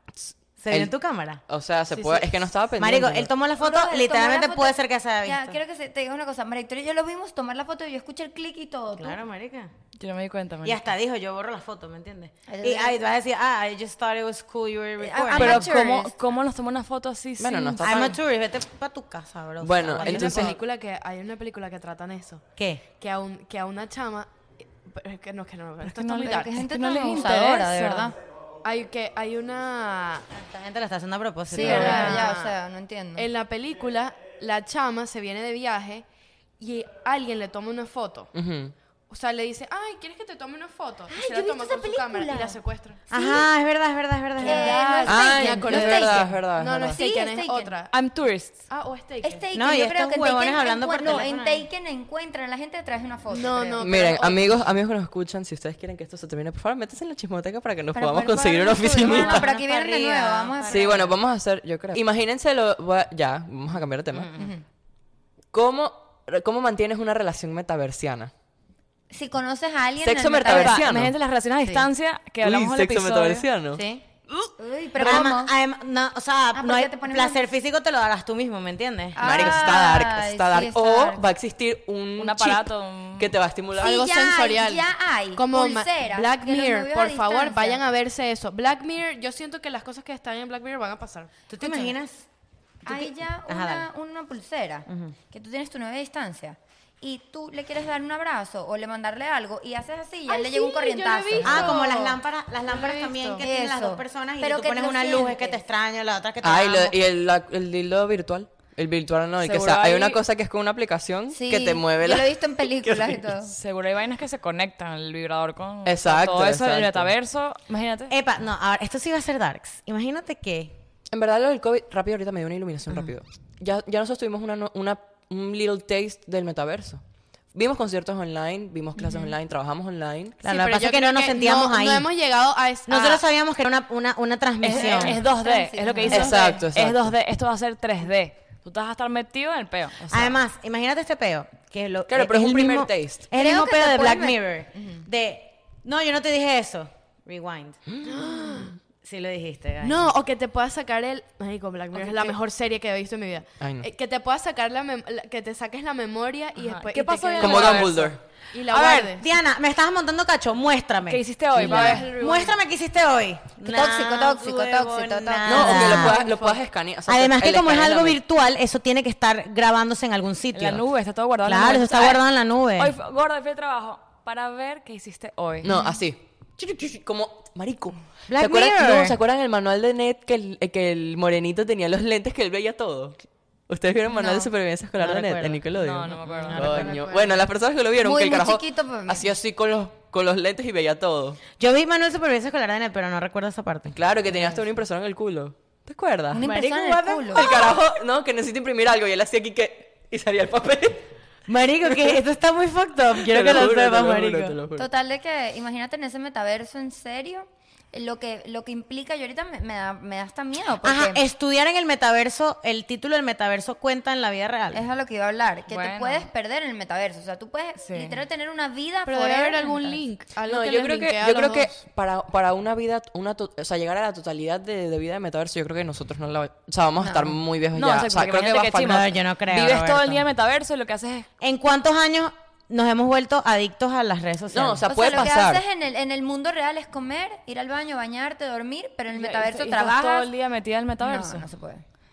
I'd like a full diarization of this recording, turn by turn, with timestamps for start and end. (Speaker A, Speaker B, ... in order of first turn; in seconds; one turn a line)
Speaker A: 0.2-0.9
Speaker B: 0.6-1.4
Speaker A: 1.5-3.3
Speaker B: 2.8-5.6
Speaker C: 3.6-9.2
Speaker B: 9.0-9.7
Speaker D: 10.0-10.8
Speaker B: 10.6-15.7
Speaker C: 12.5-13.0
Speaker C: 15.0-16.1
Speaker D: 15.3-18.1
Speaker A: 17.4-18.2
Speaker B: 17.8-20.6
Speaker A: 19.6-20.6
Speaker E: 20.0-26.6
Speaker B: 22.6-22.8
Speaker D: 25.8-28.1
Speaker C: 26.1-28.1
Speaker E: 28.6-30.3
Speaker B: 30.3-32.5
Speaker C: 31.5-33.3
Speaker E: 31.5-32.5
Speaker D: 31.6-32.2
Speaker E: 33.1-36.0
Speaker E: 36.6-38.3
Speaker A: 38.3-38.7
Speaker E: 39.1-43.1
Speaker C: 41.1-42.6
Speaker B: 43.1-45.0
Speaker C: 43.1-43.5
Speaker E: 44.4-47.9
Speaker C: 44.4-46.4
Speaker A: 45.0-47.0
Speaker C: 46.9-47.7
Speaker D: 47.9-48.7
Speaker E: 48.7-49.4
Speaker C: 49.2-54.0
Speaker B: 49.5-51.7
Speaker E: 53.3-54.5
Speaker A: 53.8-59.5
Speaker C: 57.9-61.1
Speaker B: 59.0-61.1
Speaker A: 60.6-64.3
Speaker B: 64.1-64.5
Speaker C: 64.3-64.6
Speaker A: 65.5-68.3
Speaker C: 69.1-70.8
Speaker A: 70.0-71.1
Speaker D: 70.5-73.5
Speaker A: 72.4-75.3
Speaker B: 73.7-74.0
Speaker C: 74.6-75.5
Speaker B: 75.0-79.7
Speaker C: 76.5-77.4
Speaker C: 79.2-81.2
Speaker A: 79.2-84.0
Speaker D: 82.2-83.3
Speaker C: 83.8-87.8
Speaker E: 83.8-91.3
Speaker B: 91.5-92.3
Speaker B: 92.8-93.9
Speaker C: 92.8-101.8
Speaker B: 94.9-95.1
Speaker E: 100.3-102.2
Speaker B: 101.4-107.0
Speaker E: 102.7-103.4
Speaker C: 103.4-105.6
Speaker A: 106.4-113.2
Speaker D: 109.4-110.2
Speaker C: 111.3-113.5
Speaker D: 113.5-118.1
Speaker A: 115.8-117.1
Speaker B: 118.1-120.7
Speaker A: 121.1-127.0
Speaker A: 127.5-130.4
Speaker B: 130.4-132.1
Speaker E: 130.4-133.2
Speaker B: 132.9-135.2
Speaker D: 134.6-140.4
Speaker C: 134.7-136.5
Speaker A: 136.1-137.1
Speaker B: 140.1-147.8
Speaker A: 142.1-143.2
Speaker C: 143.3-145.0
Speaker E: 148.0-148.7
Speaker B: 149.0-150.1
Speaker E: 149.8-159.3
Speaker A: 153.6-153.8
Speaker D: 156.6-158.1
Speaker A: 157.4-158.2
Speaker B: 158.7-166.2
Speaker D: 161.1-162.2
Speaker E: 161.6-162.6
Speaker C: 163.6-166.1
Speaker A: 165.4-168.2
Speaker E: 165.8-166.6
Speaker B: 167.1-170.8
Speaker D: 170.5-172.2
Speaker B: 171.4-172.9
Speaker D: 172.8-175.7
Speaker A: 175.6-183.2
Speaker B: 178.3-179.2
Speaker A: 183.7-191.4
Speaker B: 185.0-185.6
Speaker D: 185.8-186.9
Speaker B: 186.5-187.1
Speaker C: 188.0-189.3
Speaker B: 191.6-193.9
Speaker A: 193.9-196.4
Speaker C: 196.3-197.7
Speaker B: 196.3-197.7
Speaker A: 197.3-201.1
Speaker B: 201.5-204.6
Speaker A: 203.2-204.9
Speaker C: 204.8-211.2
Speaker B: 210.8-214.8
Speaker C: 214.7-220.0
Speaker D: 215.7-216.3
Speaker D: 217.8-218.2
Speaker E: 219.1-221.7
Speaker A: 220.5-229.1
Speaker C: 227.0-227.3
Speaker D: 227.7-231.3
Speaker B: 228.8-230.2
Speaker B: 231.4-235.3
Speaker A: 234.5-235.6
Speaker C: 234.9-240.3
Speaker D: 239.1-241.4
Speaker C: 241.0-241.8